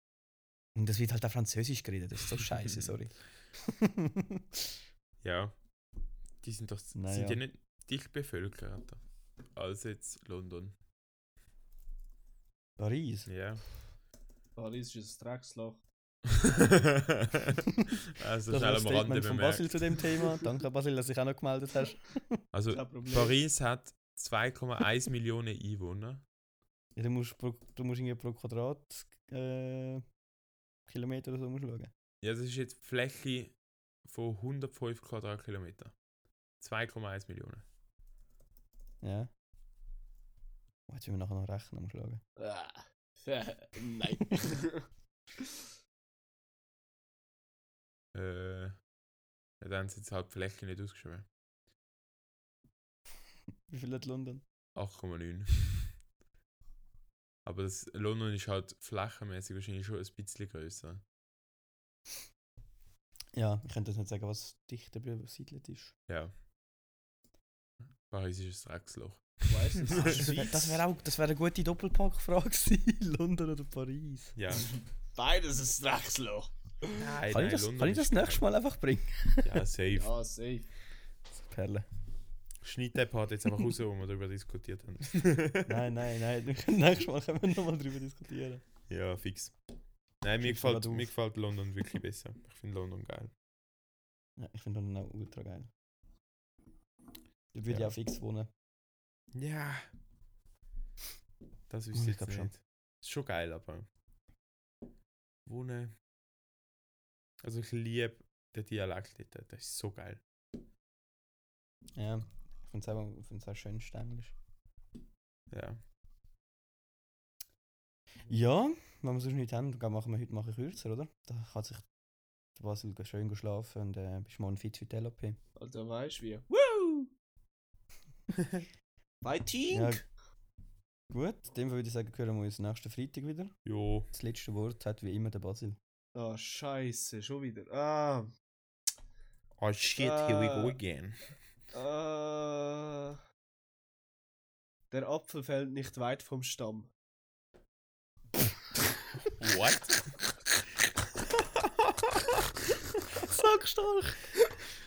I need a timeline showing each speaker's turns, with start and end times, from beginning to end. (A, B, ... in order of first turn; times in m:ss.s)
0:00.8-0:04.4 A
0:02.6-0:02.9 B
0:05.2-0:05.5 B
0:06.4-0:09.0 B
0:06.9-0:07.4 A
0:09.5-0:10.8 B
0:12.8-0:13.3 A
0:13.3-0:13.6 B
0:14.6-0:15.8 C
0:16.3-0:20.1 B
0:18.5-0:22.4 A
0:22.5-0:26.2 B
0:22.7-0:23.4 C
0:27.0-0:30.0 A
0:30.8-0:31.9 A
0:32.2-0:33.5 B
0:34.0-0:35.9 B
0:36.6-0:37.6 B
0:39.0-0:39.3 A
0:40.9-0:42.2 A
0:42.4-0:44.9 C
0:48.1-0:48.8 B
0:49.6-0:51.2 B
0:53.7-0:54.4 A
0:54.8-0:56.0 B
0:57.4-1:01.0 B
1:03.3-1:05.9 A
1:06.1-1:06.3 B
1:08.1-1:10.8 B
1:09.5-1:10.4 C
1:09.9-1:14.4 A
1:14.4-1:14.7 B
1:15.1-1:16.9 C
1:16.9-1:18.4 B
1:17.3-1:19.6 A
1:19.4-1:20.1 B
1:19.9-1:20.7 C
1:21.4-1:21.8 A
1:22.6-1:25.8 B
1:25.6-1:28.6 A
1:28.9-1:29.5 B
1:30.2-1:33.3 B
1:30.4-1:31.1 A
1:34.4-1:35.7 A
1:37.5-1:38.5 A
1:39.3-1:39.9 B
1:41.7-1:43.8 B
1:41.9-1:42.5 A
1:45.4-1:45.9 B
1:47.4-1:50.2 B
1:52.0-1:54.3 A
1:55.5-1:55.8 B
1:58.3-2:01.8 A
2:02.5-2:05.4 A
2:05.6-2:07.1 C
2:09.2-2:10.0 C
2:09.7-2:10.0 A
2:11.1-2:13.5 A
2:13.6-2:14.1 B
2:14.1-2:15.8 A
2:16.1-2:18.3 C
2:19.6-2:21.3 B
2:20.0-2:20.8 C
2:21.7-2:23.2 C
2:24.9-2:26.9 C
2:29.3-2:30.1 B
2:31.6-2:32.2 B
2:33.2-2:34.3 A